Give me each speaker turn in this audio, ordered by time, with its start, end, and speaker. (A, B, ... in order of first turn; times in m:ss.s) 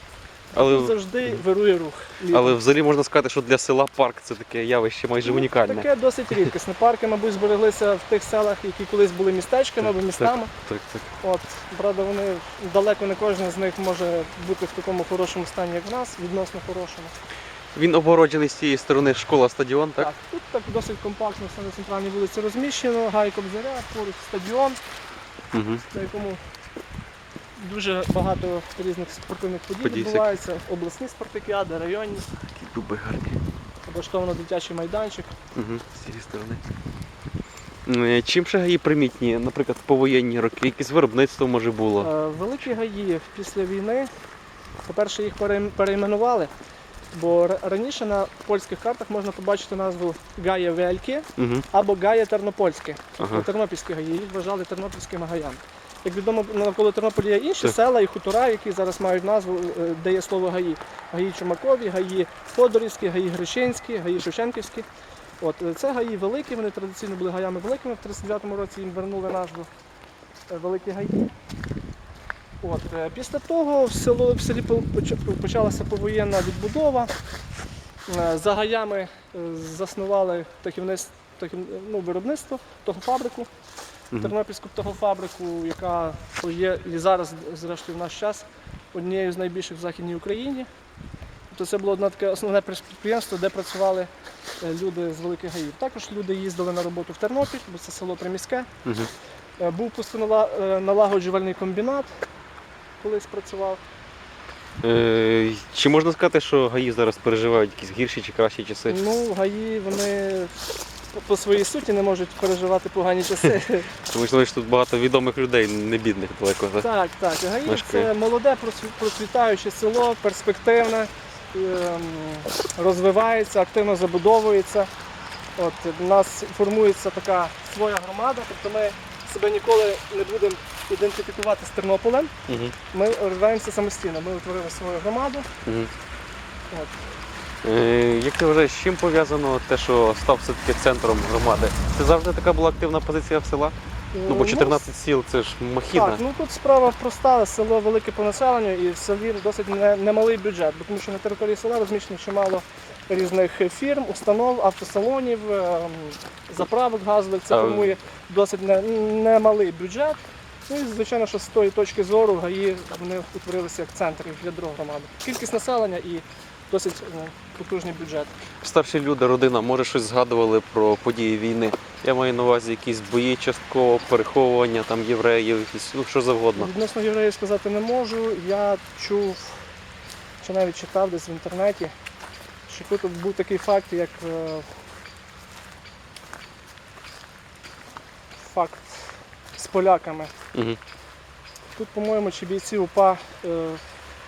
0:00.5-0:02.6 A
0:00.6-0:01.4 B
0:02.3-0:05.9 B
0:05.2-0:10.5 A
0:09.8-0:11.1 B
0:11.2-0:17.1 A
0:17.7-0:20.1 B
0:20.0-0:24.8 A
0:25.5-0:25.8 B
0:25.8-0:26.4 A
0:27.6-0:32.3 A
0:29.8-0:30.3 B
0:32.4-0:33.4 B
0:33.9-0:35.4 A
0:35.6-0:36.6 B
0:37.9-0:42.1 B
0:42.0-0:44.1 A
0:44.8-0:46.5 A
0:47.1-1:04.9 A
0:51.4-0:51.7 B
0:53.2-0:53.5 B
1:05.4-1:09.7 A
1:10.5-1:11.3 A
1:12.6-1:17.1 A
1:18.1-1:23.5 A
1:24.2-1:30.7 A
1:31.5-1:34.1 A
1:34.6-1:38.7 A
1:39.6-1:42.1 A
1:43.0-1:43.8 A
1:44.8-1:49.0 B
1:48.9-1:50.6 A
1:51.1-1:53.9 A
1:54.1-1:56.9 B
1:56.8-2:04.9 A
1:57.7-1:58.1 B
2:05.6-2:12.3 A
2:12.5-2:12.8 B
2:12.9-2:15.5 A
2:15.7-2:15.9 B
2:16.7-2:17.0 A
2:17.6-2:23.8 B
2:24.1-2:24.8 A
2:24.3-2:26.2 B
2:25.9-2:48.3 A
2:37.5-2:38.0 B
2:48.6-2:56.7 B
2:56.6-2:59.6 A
3:00.4-3:01.9 A
3:02.7-3:04.7 A
3:08.4-3:10.3 A
3:11.8-3:13.8 A